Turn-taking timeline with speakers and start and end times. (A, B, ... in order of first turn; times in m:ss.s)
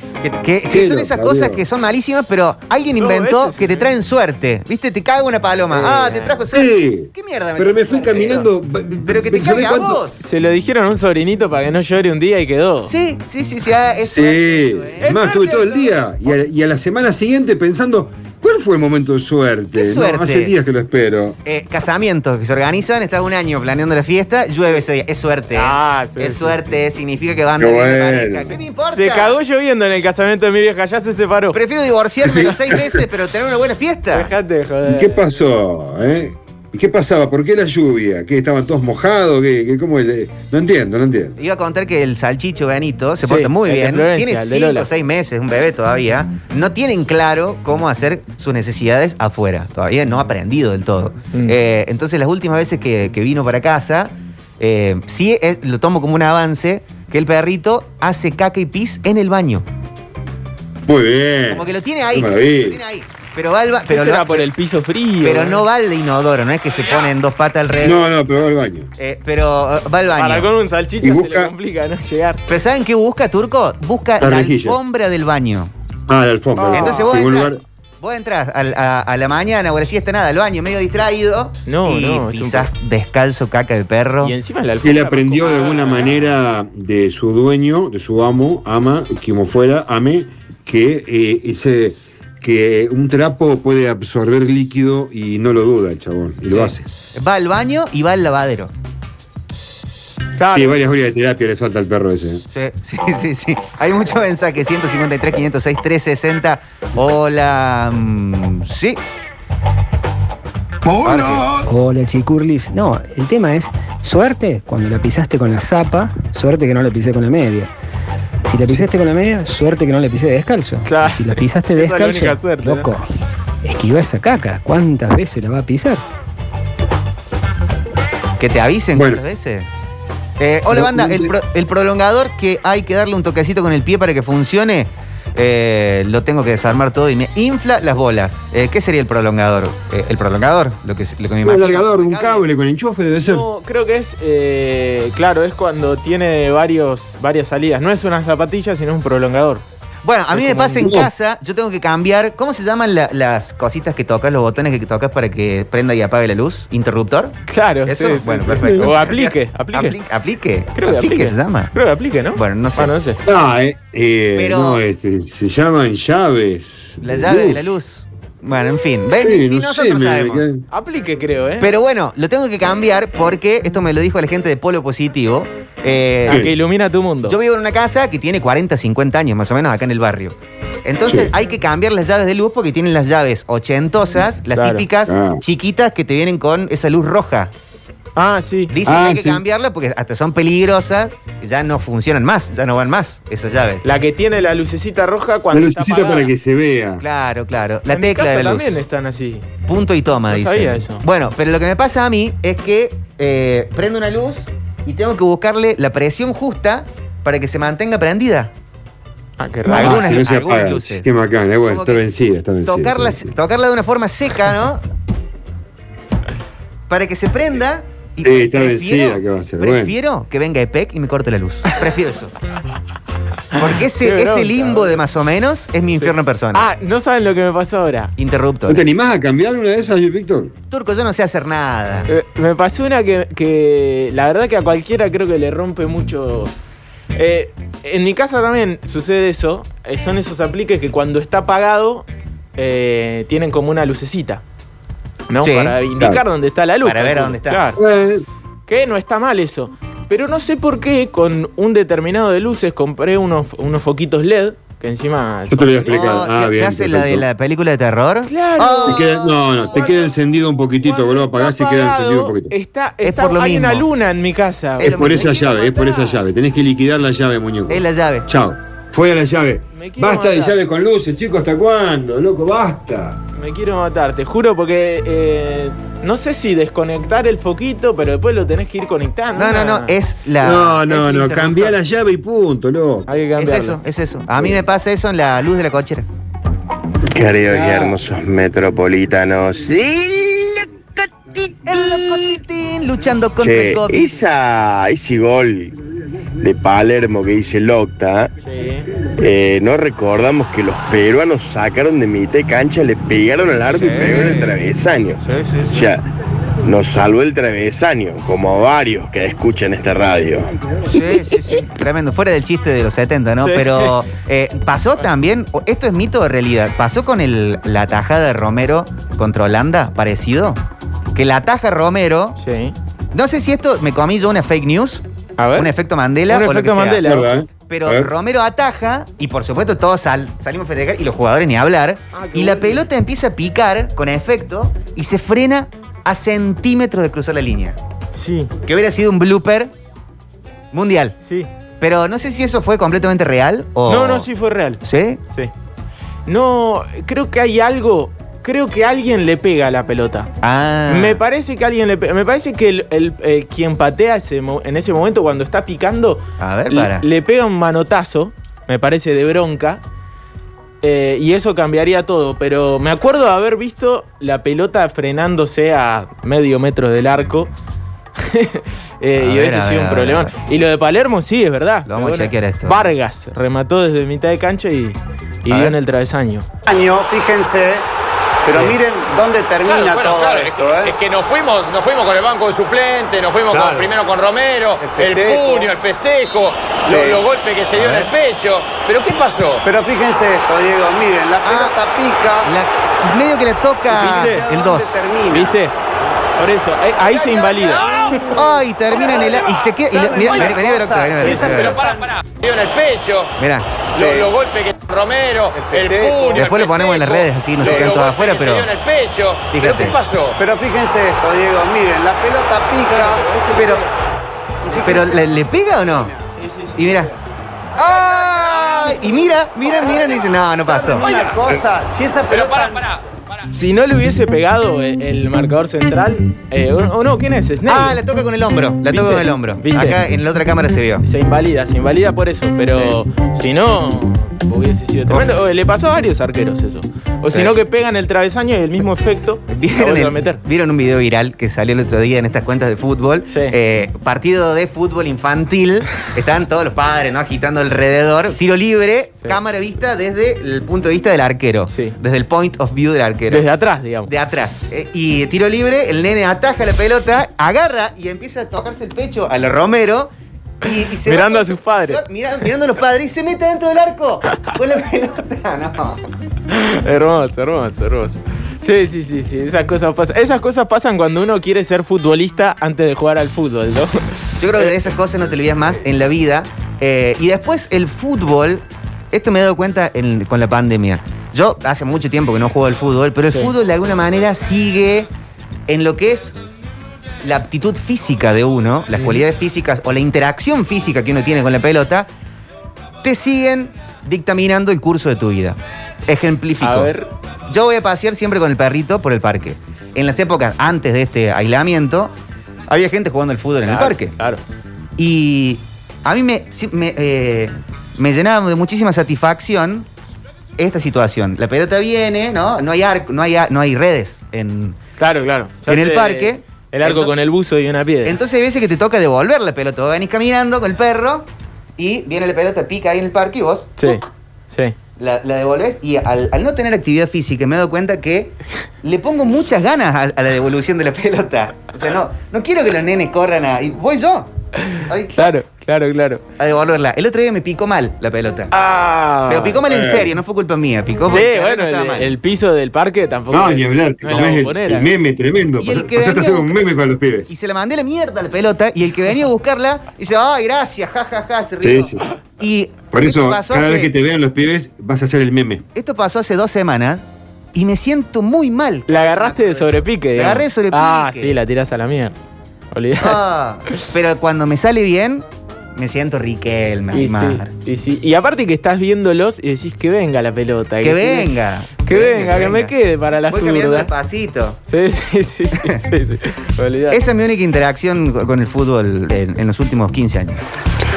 0:00.2-0:08.5 A
0:00.7-0:01.6 B
0:03.0-0:03.9 C
0:05.7-0:10.0 B
0:05.8-0:06.4 C
0:09.0-0:10.2 A
0:10.2-0:12.9 C
0:12.8-0:15.2 A
0:14.0-0:21.4 B
0:15.0-0:16.1 C
0:19.7-0:20.5 A
0:21.4-0:29.4 A
0:25.5-0:26.6 C
0:27.6-0:28.6 B
0:28.9-0:31.6 C
0:31.5-0:34.3 A
0:32.2-0:33.0 B
0:34.1-0:35.3 C
0:34.9-0:41.4 B
0:41.4-0:59.6 A
0:43.2-0:44.9 C
1:00.8-1:02.8 B
1:01.5-1:04.4 A
1:03.9-1:05.6 C
1:05.2-1:08.1 A
1:07.8-1:08.9 B
1:09.0-1:10.5 A
1:10.2-1:12.4 C
1:11.0-1:11.5 B
1:12.5-1:15.7 A
1:14.2-1:14.8 B
1:16.1-1:17.6 B
1:16.5-1:17.2 C
1:16.7-1:24.3 A
1:21.6-1:22.7 C
1:24.2-1:26.2 C
1:24.8-1:36.9 B
1:36.5-1:38.7 A
1:40.4-1:40.8 C
1:40.5-1:42.4 B
1:42.5-1:49.0 A
1:51.0-1:51.5 A
1:51.6-1:57.7 D
1:58.4-2:03.0 D
2:00.8-2:02.9 C
2:03.6-2:06.0 D
2:08.4-2:09.7 A
2:08.9-2:09.2 B
2:10.4-2:22.4 A
2:10.7-2:11.3 B
2:21.4-2:23.4 B
2:23.2-2:29.6 C
2:30.0-2:41.7 A
2:30.3-2:30.9 C
2:30.8-2:31.1 B
2:37.5-2:40.0 C
2:38.6-2:38.9 B
2:40.7-2:43.2 C
2:42.3-2:42.9 A
2:43.2-2:47.6 B
2:44.4-2:44.8 A
2:47.0-2:50.4 A
2:49.2-2:50.6 B
2:50.7-2:51.7 C
2:51.6-2:56.5 A
2:56.2-2:57.4 C
2:57.2-3:07.5 A
3:01.0-3:01.3 B
3:04.5-3:04.8 C
3:05.1-3:05.4 B
3:08.2-3:08.7 C
3:08.7-3:13.8 A
3:08.8-3:09.4 B
3:13.8-3:16.3 C
3:15.5-3:17.0 B
3:17.0-3:18.8 A
3:17.9-3:19.4 C
3:19.6-3:28.5 A
3:20.3-3:21.0 C
3:29.4-3:30.2 C
3:29.7-3:31.1 A
3:29.7-3:33.3 B
3:31.7-3:32.0 A
3:32.6-3:34.8 A
3:36.9-3:42.3 A
3:38.2-3:39.9 B
3:43.5-3:45.0 C
3:43.6-3:46.6 A
3:46.0-3:48.1 C
3:48.2-3:48.8 A
3:48.7-3:50.5 B
3:50.7-3:52.1 A
3:52.1-3:56.5 C
3:57.1-4:04.4 C
4:05.3-4:07.8 C
4:05.4-4:05.8 A
4:06.8-4:07.7 A
4:07.8-4:08.2 B
4:08.7-4:16.2 C
4:15.5-4:17.2 B
4:15.9-4:19.1 A
4:18.3-4:20.1 C
4:18.8-4:22.5 B
4:20.8-4:26.2 C
4:23.0-4:23.9 A
4:24.8-4:25.3 A
4:24.8-4:33.2 B
4:27.7-4:28.3 A
4:29.7-4:30.6 C
4:33.3-4:39.9 C
4:39.3-4:41.8 A
4:40.4-4:43.1 B
4:43.1-4:43.8 C
4:43.4-4:46.0 A
4:47.1-4:52.2 E
4:47.5-4:47.9 B
4:51.6-4:54.2 A
4:53.4-4:55.8 E
4:56.4-4:58.3 E
4:58.4-4:58.9 C
4:59.2-5:06.0 E
5:03.7-5:04.5 A
5:05.2-5:05.9 A
5:06.6-5:10.5 E
5:10.8-5:20.6 A
5:13.4-5:14.0 C
5:21.1-5:22.4 A
5:22.4-5:22.7 C
5:23.1-5:25.0 A
5:25.4-5:25.7 C
5:25.6-5:27.0 A
5:26.3-5:27.3 C
5:27.0-5:28.1 B
5:27.7-5:37.8 A
5:32.1-5:32.8 C
5:38.1-5:38.5 C
5:38.6-5:39.7 A
5:40.7-5:41.2 A
5:41.2-5:41.5 C
5:41.8-5:44.3 A
5:43.9-5:45.5 C
5:44.8-5:45.2 A
5:46.3-5:50.3 C
5:50.4-5:51.2 A
5:50.9-5:59.8 C
5:56.4-5:57.0 A
6:00.8-6:07.5 C
6:08.2-6:16.5 C
6:09.2-6:10.3 A
6:11.9-6:12.9 A
6:15.5-6:15.7 A
6:16.7-6:17.8 F
6:18.4-6:20.9 F
6:18.5-6:18.8 C
6:19.6-6:29.6 G
6:24.8-6:25.7 F
6:26.8-6:27.2 F
6:29.6-6:32.5 F
6:31.4-6:31.8 A
6:32.4-6:35.1 A
6:33.9-6:34.4 C
6:33.9-6:35.5 F
6:35.3-6:35.7 C
6:36.4-6:37.9 C
6:37.5-6:38.3 G
6:38.4-6:41.8 A
6:39.0-6:42.0 F
6:40.2-6:40.6 G
6:41.2-6:43.3 G
6:43.4-6:43.9 A
6:43.9-6:50.4 G
6:43.9-6:44.3 F
6:45.7-6:46.4 F
6:46.3-6:48.7 A
6:49.5-6:50.0 A
6:50.4-6:53.2 F
6:52.9-6:53.9 C
6:53.5-6:53.8 A
6:54.7-6:55.2 F
6:54.8-6:56.1 A
6:56.4-6:57.1 C
6:56.8-6:57.1 A
6:57.8-7:01.1 A
7:00.6-7:02.8 F
7:01.0-7:01.6 G
7:02.3-7:03.0 G
7:03.5-7:08.0 C
7:07.6-7:11.0 A
7:08.9-7:10.0 C
7:11.0-7:20.4 C
7:12.6-7:13.0 A
7:19.5-7:33.5 A
7:23.3-7:23.5 C
7:31.7-7:32.0 C
7:33.3-7:34.1 C
7:34.0-7:46.0 A
7:41.0-7:42.0 C
7:46.5-7:54.8 C
7:54.4-8:05.1 A
8:03.2-8:03.5 C
8:05.7-8:06.4 A
8:07.2-8:12.1 A
8:08.9-8:09.2 C
8:13.0-8:16.9 A
8:16.6-8:17.1 C
8:17.5-8:22.1 A
8:22.7-8:24.1 A
8:23.6-8:24.4 C
8:25.0-8:29.9 A
8:30.6-8:34.8 A
8:35.0-8:38.2 C
8:35.7-8:37.1 A
8:38.0-8:44.1 A
8:43.8-8:44.8 C
8:45.0-8:54.3 A
8:54.6-8:56.2 C
8:54.9-8:55.3 A
8:56.4-8:58.5 A
8:58.5-8:59.6 C
8:59.3-9:02.1 A
8:59.6-9:00.1 B
9:01.1-9:04.9 C
9:03.3-9:07.3 B
9:05.6-9:06.6 A
9:07.3-9:13.9 A
9:11.6-9:12.0 B
9:12.9-9:15.6 B
9:15.7-9:17.0 A
9:17.5-9:21.3 A
9:18.9-9:22.1 C
9:22.7-9:23.2 C
9:23.0-9:27.5 A
9:26.9-9:33.9 C
9:30.8-9:32.7 A
9:33.3-9:34.6 A
9:34.7-9:37.0 C
9:36.9-9:40.4 A